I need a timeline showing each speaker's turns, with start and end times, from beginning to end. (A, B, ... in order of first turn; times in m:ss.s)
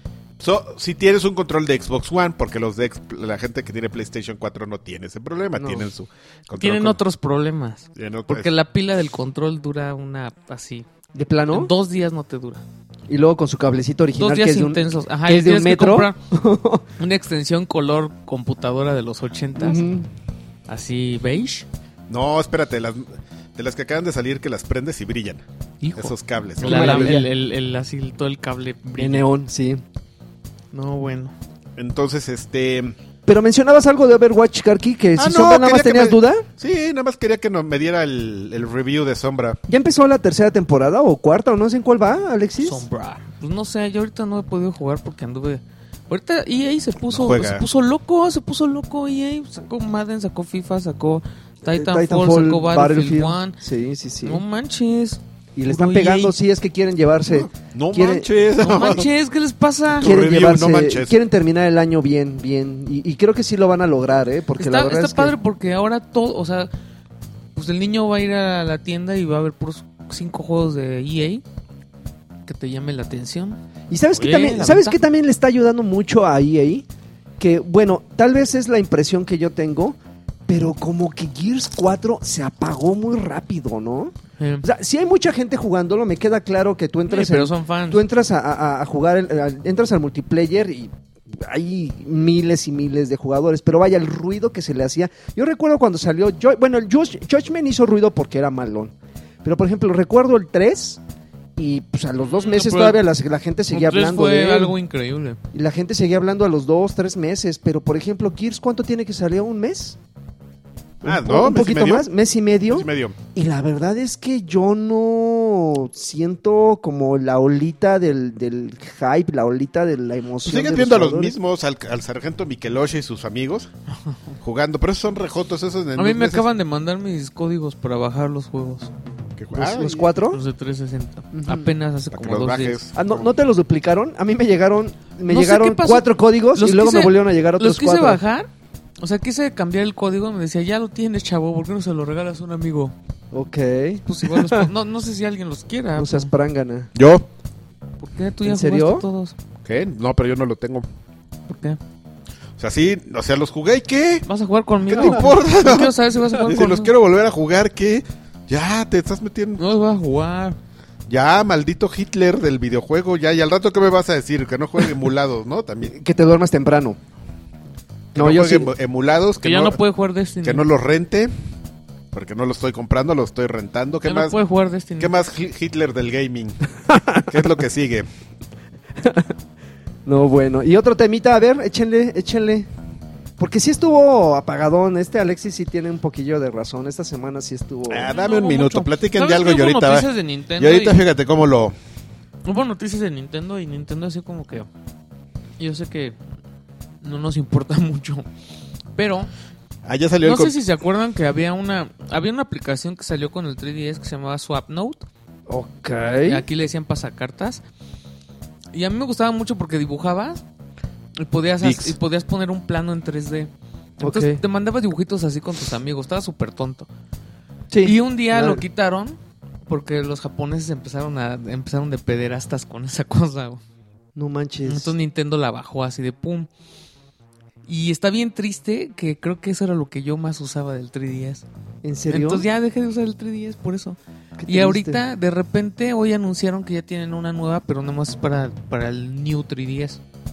0:00.4-0:07.0 A
0:05.6-0:05.9 B
0:06.5-0:10.9 C
0:08.0-0:08.5 A
0:11.1-0:11.7 B
0:11.5-0:12.6 C
0:13.1-0:16.8 B
0:14.2-0:16.2 C
0:17.0-0:19.8 C
0:19.6-0:20.1 B
0:20.7-0:21.6 C
0:22.1-0:25.4 A
0:25.8-0:29.2 C
0:25.9-0:27.2 A
0:26.6-0:27.3 B
0:29.0-0:29.8 B
0:30.7-0:31.3 C
0:31.8-0:33.0 A
0:33.2-0:36.4 B
0:35.2-0:39.6 A
0:39.7-0:42.8 B
0:42.6-0:53.6 C
0:47.1-0:47.6 A
0:51.7-0:54.4 B
0:54.2-0:56.3 C
0:55.6-0:58.3 B
0:57.3-0:59.1 A
0:58.6-1:00.1 C
1:00.0-1:01.2 A
1:00.0-1:05.3 B
1:04.6-1:06.7 C
1:07.6-1:11.4 C
1:12.4-1:13.6 C
1:13.9-1:16.8 B
1:14.1-1:15.0 C
1:17.4-1:20.0 B
1:20.5-1:38.9 B
1:24.4-1:24.7 C
1:27.1-1:28.0 C
1:39.4-1:41.0 B
1:41.6-1:44.7 B
1:42.2-1:43.0 C
1:43.7-1:45.4 C
1:45.5-1:50.0 B
1:51.0-1:52.1 A
1:51.0-2:01.3 B
1:52.7-1:53.2 A
2:00.4-2:03.7 A
2:04.4-2:06.5 A
2:06.0-2:08.9 C
2:09.4-2:10.1 A
2:09.6-2:10.4 B
2:10.2-2:12.8 C
2:11.3-2:11.7 B
2:12.1-2:13.3 A
2:12.9-2:18.2 B
2:15.3-2:18.5 C
2:19.0-2:22.9 C
2:23.3-2:24.7 B
2:24.0-2:26.3 C
2:26.0-2:26.9 B
2:26.9-2:27.3 A
2:28.0-2:29.4 C
2:28.4-2:29.0 B
2:29.6-2:30.9 A
2:31.5-2:31.8 C
2:32.6-2:34.2 A
2:34.2-2:36.9 C
2:34.9-2:39.6 A
2:39.6-2:40.6 C
2:41.1-2:45.9 A
2:45.9-2:47.0 B
2:48.1-2:49.8 A
2:48.1-2:48.7 B
2:49.4-2:50.6 C
2:50.4-2:51.3 A
2:52.1-2:54.4 A
2:54.0-2:55.2 C
2:55.0-2:56.6 A
2:56.9-2:57.2 B
2:57.2-2:58.1 A
2:59.0-2:59.3 B
3:00.1-3:02.7 B
3:03.4-3:08.1 B
3:07.9-3:11.7 A
3:08.0-3:11.0 C
3:12.4-3:14.7 C
3:15.6-3:16.2 C
3:17.0-3:18.2 C
3:18.9-3:19.3 C
3:19.8-3:20.6 A
3:20.2-3:25.1 C
3:25.5-3:26.4 B
3:26.2-3:27.6 C
3:28.7-3:30.4 C
3:31.2-3:36.9 C
3:31.6-3:32.0 A
3:34.0-3:34.4 B
3:37.7-3:38.6 B
3:37.8-3:43.6 C
3:44.1-3:44.9 B
3:44.6-3:46.5 C
3:47.6-3:51.4 C
3:51.8-3:52.5 B
3:52.1-4:00.0 C
3:54.4-3:55.0 B